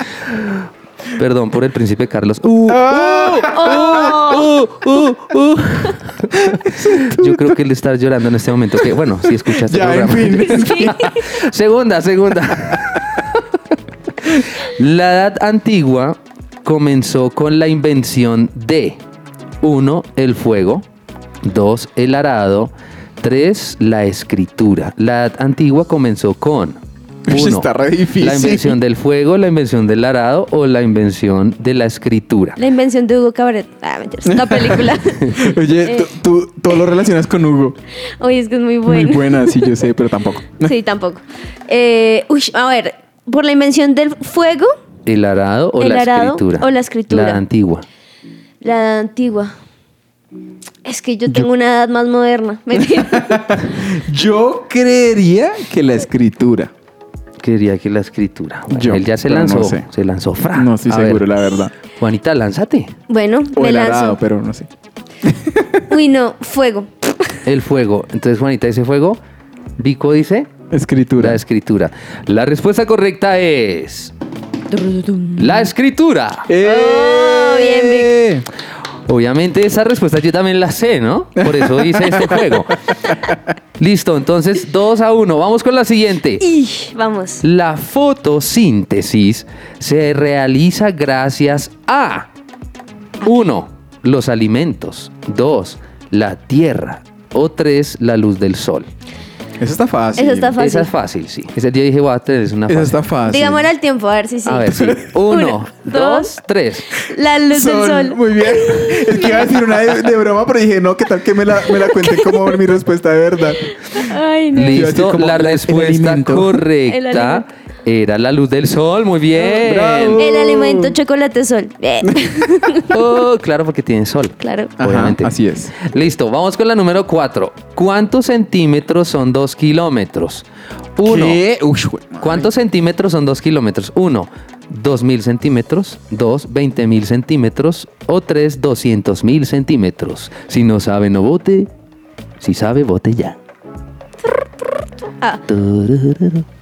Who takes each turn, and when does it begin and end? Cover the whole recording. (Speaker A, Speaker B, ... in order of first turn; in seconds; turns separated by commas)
Speaker A: 0.4-13.4, Speaker B: 2.7-4.4, Speaker C: 3.4-4.5, Speaker B: 6.4-7.6, Speaker B: 9.3-11.1, Speaker C: 10.5-11.2, Speaker B: 12.6-13.0, Speaker A: 14.2-19.0, Speaker A: 19.6-20.9, Speaker A: 21.4-26.8, Speaker B: 27.3-28.8, Speaker A: 27.3-27.7, Speaker A: 28.2-32.6, Speaker C: 32.6-36.1, Speaker B: 34.3-37.8, Speaker C: 38.2-39.8, Speaker B: 38.9-40.7, Speaker C: 40.6-44.7, Speaker A: 45.1-47.9, Speaker C: 45.8-47.4, Speaker C: 48.6-49.5, Speaker C: 50.9-53.6, Speaker B: 52.8-56.7, Speaker A: 57.4-61.3, Speaker B: 58.7-59.9, Speaker B: 60.5-61.7, Speaker A: 62.0-62.9, Speaker C: 63.1-64.2, Speaker B: 63.5-64.7, Speaker B: 65.2-65.8, Speaker C: 65.9-67.4, Speaker A: 67.5-69.2, Speaker A: 69.8-70.5, Speaker B: 70.7-71.4, Speaker A: 71.2-74.1, Speaker C: 74.7-75.7, Speaker A: 75.4-76.5, Speaker B: 76.5-78.5, Speaker C: 76.6-78.1, Speaker A: 79.1-82.8, Speaker B: 81.4-82.6, Speaker A: 83.8-86.4, Speaker C: 86.4-87.4, Speaker A: 87.4-92.3, Speaker A: 93.2-98.9, Speaker B: 99.6-100.6, Speaker C: 100.2-100.9, Speaker A: 100.6-103.0, Speaker B: 102.7-103.7, Speaker C: 103.3-106.3, Speaker A: 104.5-106.9, Speaker C: 107.0-109.6, Speaker B: 107.5-114.1, Speaker C: 111.6-112.5, Speaker C: 113.9-114.9, Speaker A: 114.5-120.3, Speaker B: 114.6-116.6, Speaker C: 116.9-117.5, Speaker B: 119.3-120.9, Speaker C: 120.2-123.0, Speaker A: 122.9-130.4, Speaker C: 124.4-124.7, Speaker B: 124.8-125.7, Speaker A: 131.0-131.4, Speaker B: 131.0-132.5, Speaker A: 132.2-141.7, Speaker A: 142.4-143.4, Speaker C: 144.2-145.4, Speaker A: 145.5-146.4